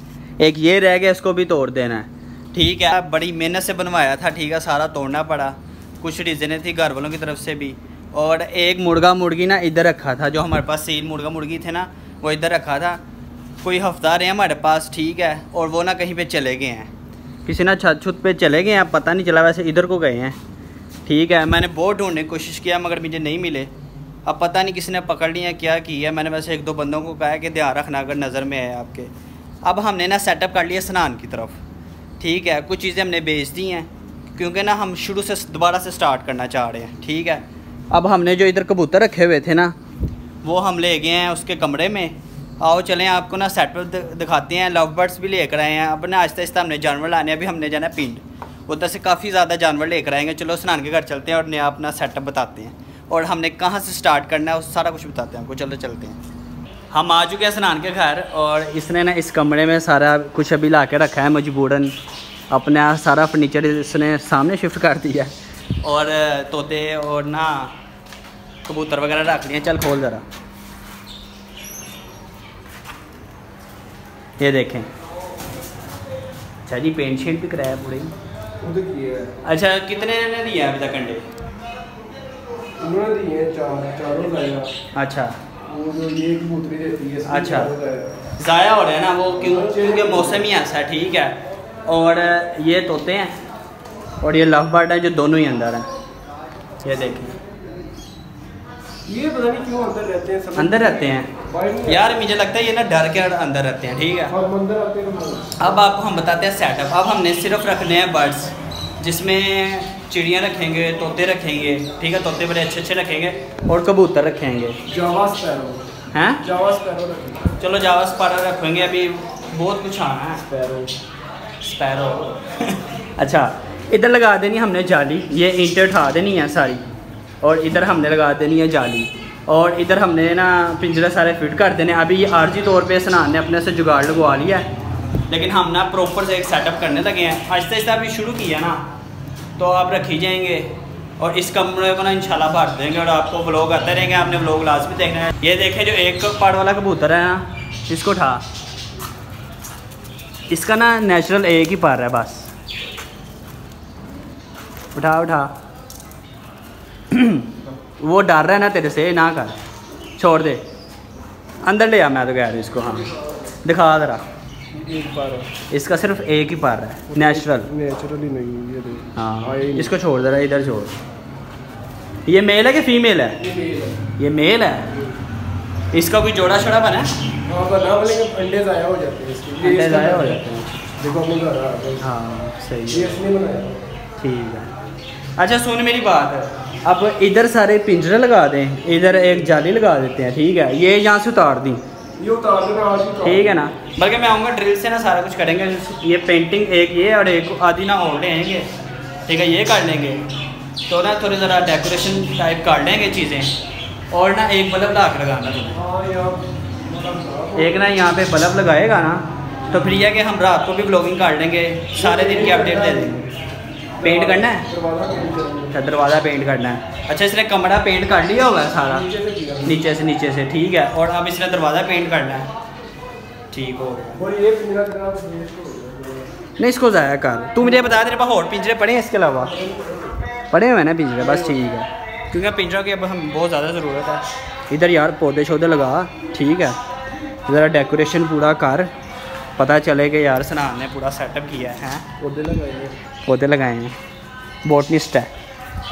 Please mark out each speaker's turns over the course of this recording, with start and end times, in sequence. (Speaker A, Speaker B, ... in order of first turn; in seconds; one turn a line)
Speaker A: 0.4-13.0
Speaker A: 13.6-16.9
Speaker A: 17.4-20.4
Speaker A: 21.1-23.7
Speaker A: 24.2-29.1
Speaker A: 29.6-31.6
Speaker A: 32.2-39.7
Speaker A: 40.4-56.2
Speaker A: 56.9-61.9
Speaker A: 62.5-65.3
Speaker A: 65.8-67.7
Speaker A: 68.7-70.2
Speaker A: 74.4-74.9
Speaker A: 76.6-78.1
Speaker B: 78.6-79.3
Speaker A: 79.4-81.2
Speaker B: 82.8-84.7
Speaker A: 84.9-85.3
Speaker B: 85.7-88.1
Speaker A: 87.3-87.7
Speaker A: 88.4-93.3
Speaker B: 89.4-90.4
Speaker A: 94.2-95.8
Speaker A: 96.8-97.3
Speaker B: 99.1-102.2
Speaker A: 100.6-101.3
Speaker A: 101.8-104.3
Speaker B: 104.3-105.7
Speaker A: 105.6-114.8
Speaker B: 114.9-115.8
Speaker A: 116.1-116.4
Speaker B: 116.4-117.5
Speaker A: 117.6-120.5
Speaker B: 120.5-120.9
Speaker A: 121.6-126.8
Speaker A: 127.4-134.7
Speaker A: 135.3-138.8
Speaker A: 139.6-140.7
Speaker A: 141.2-148.4
Speaker A: 150.5-152.5
Speaker A: 154.9-155.5
Speaker A: 157.1-159.6
Speaker A: 160.2-160.6
Speaker A: 161.6-163.1
Speaker A: 163.6-164.2
Speaker B: 164.7-165.5
Speaker A: 165.7-167.7
Speaker B: 167.1-169.9
Speaker A: 169.1-170.9
Speaker A: 172.3-173.4
Speaker B: 173.4-174.0
Speaker A: 174.2-174.9
Speaker A: 175.9-177.1
Speaker B: 177.5-180.4
Speaker A: 179.6-180.8
Speaker B: 181.0-182.0
Speaker A: 182.0-183.2
Speaker B: 182.9-183.8
Speaker A: 184.2-184.7
Speaker A: 185.4-191.8
Speaker B: 192.2-193.6
Speaker A: 193.2-198.7
Speaker A: 199.3-200.2
Speaker A: 200.9-203.5
Speaker A: 204.1-205.8
Speaker B: 205.7-208.0
Speaker A: 207.6-213.3
Speaker B: 211.9-213.2
Speaker B: 214.0-215.7
Speaker A: 214.0-214.7
Speaker A: 215.7-219.1
Speaker B: 218.8-219.8
Speaker A: 219.6-222.4
Speaker A: 223.5-224.2
Speaker B: 224.2-226.3
Speaker A: 226.6-229.5
Speaker B: 227.6-228.1
Speaker B: 229.4-230.2
Speaker A: 230.5-236.8
Speaker B: 231.2-231.6
Speaker A: 237.4-238.9
Speaker A: 239.6-242.1
Speaker B: 242.2-242.9
Speaker A: 243.2-244.0
Speaker A: 244.6-245.3